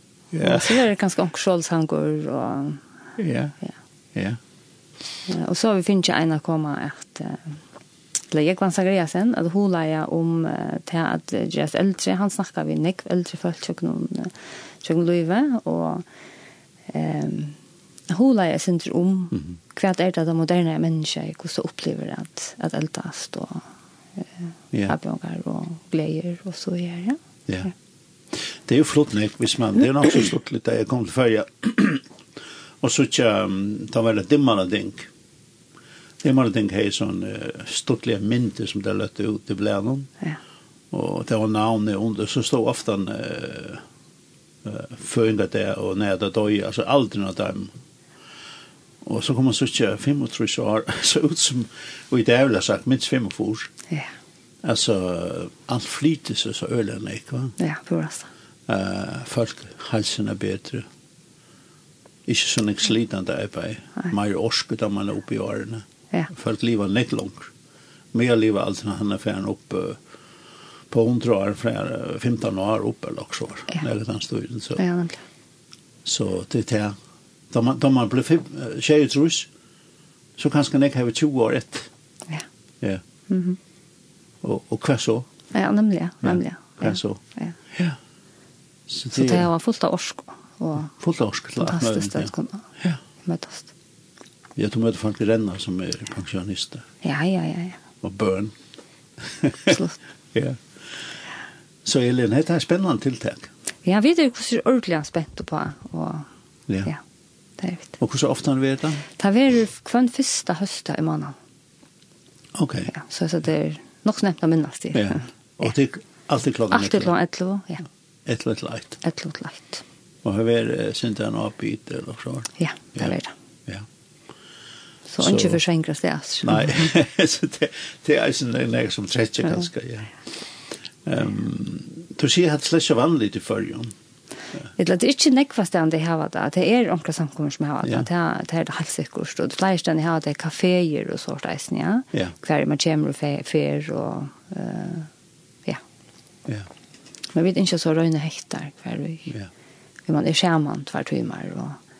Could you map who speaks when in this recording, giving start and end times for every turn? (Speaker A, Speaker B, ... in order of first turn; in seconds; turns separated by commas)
Speaker A: 0.3-0.7, Speaker B: 0.4-2.8, Speaker A: 3.2-3.6, Speaker B: 5.3-7.5, Speaker B: 8.3-16.1, Speaker B: 16.9-17.6, Speaker B: 18.1-23.6, Speaker B: 24.9-27.2, Speaker A: 28.5-32.0, Speaker A: 32.8-35.1, Speaker A: 36.2-40.1, Speaker A: 40.9-43.8, Speaker A: 44.6-47.7, Speaker A: 49.0-53.7, Speaker A: 54.6-57.5, Speaker B: 57.6-58.3, Speaker A: 58.7-60.9, Speaker A: 62.3-67.5, Speaker A: 68.1-70.0, Speaker A: 70.9-74.8, Speaker B: 74.8-75.2, Speaker A: 76.0-77.0, Speaker A: 77.5-79.5, Speaker A: 80.4-81.9, Speaker B: 83.3-83.6, Speaker A: 84.4-85.3, Speaker B: 85.5-87.5, Speaker A: 86.2-87.2, Speaker A: 87.7-88.0, Speaker A: 88.9-89.5, Speaker B: 89.1-90.9, Speaker A: 90.8-93.0, Speaker B: 91.6-92.7, Speaker B: 93.2-93.7, Speaker A: 94.5-96.8, Speaker B: 97.0-97.8, Speaker A: 98.0-98.5, Speaker A: 99.4-99.7, Speaker B: 99.7-100.0, Speaker A: 100.3-100.6, Speaker A: 101.8-103.5, Speaker B: 103.8-106.2, Speaker B: 107.6-108.0, Speaker A: 108.0-109.0, Speaker B: 109.2-111.3, Speaker A: 112.5-112.9, Speaker B: 112.9-115.2, Speaker A: 114.9-117.1, Speaker B: 116.7-117.8, Speaker A: 118.2-119.0, Speaker B: 119.0-119.8, Speaker A: 120.2-123.1, Speaker B: 122.6-123.3, Speaker B: 125.1-126.8, Speaker A: 125.2-125.6, Speaker A: 126.4-130.1, Speaker A: 131.1-133.9, Speaker B: 134.8-145.1, Speaker B: 147.3-149.3, Speaker B: 150.1-151.8